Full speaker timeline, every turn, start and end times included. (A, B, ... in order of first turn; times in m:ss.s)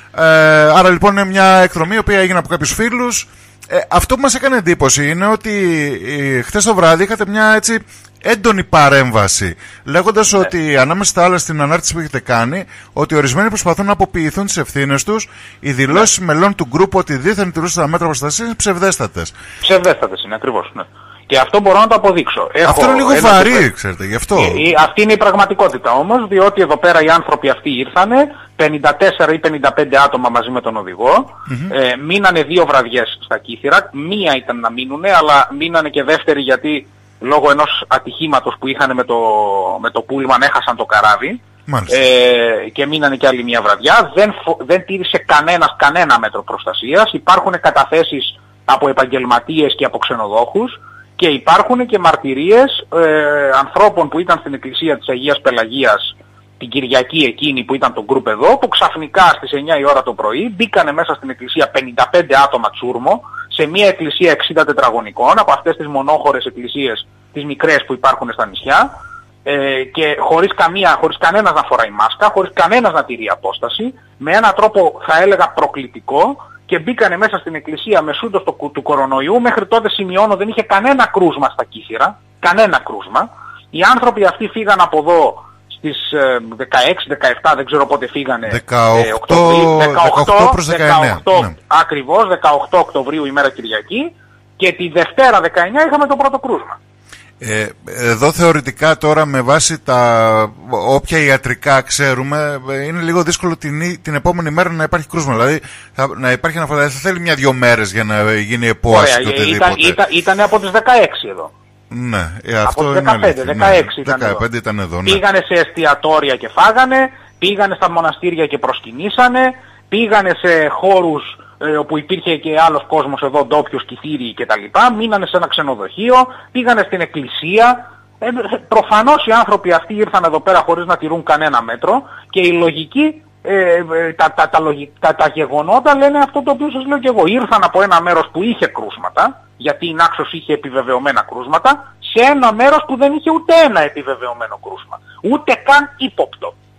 0:00.1-0:19.3 A
0:19.6-0:23.7 B
0:22.6-0:24.7 A
0:24.3-1:08.9 B
0:31.5-0:31.7 A
0:41.7-0:42.0 A
1:09.4-1:36.8 B
1:28.5-1:31.5 A
1:37.4-1:50.0 A
1:48.9-1:51.5 B
1:51.9-1:55.2 A
1:52.7-1:54.4 B
1:55.0-2:26.6 B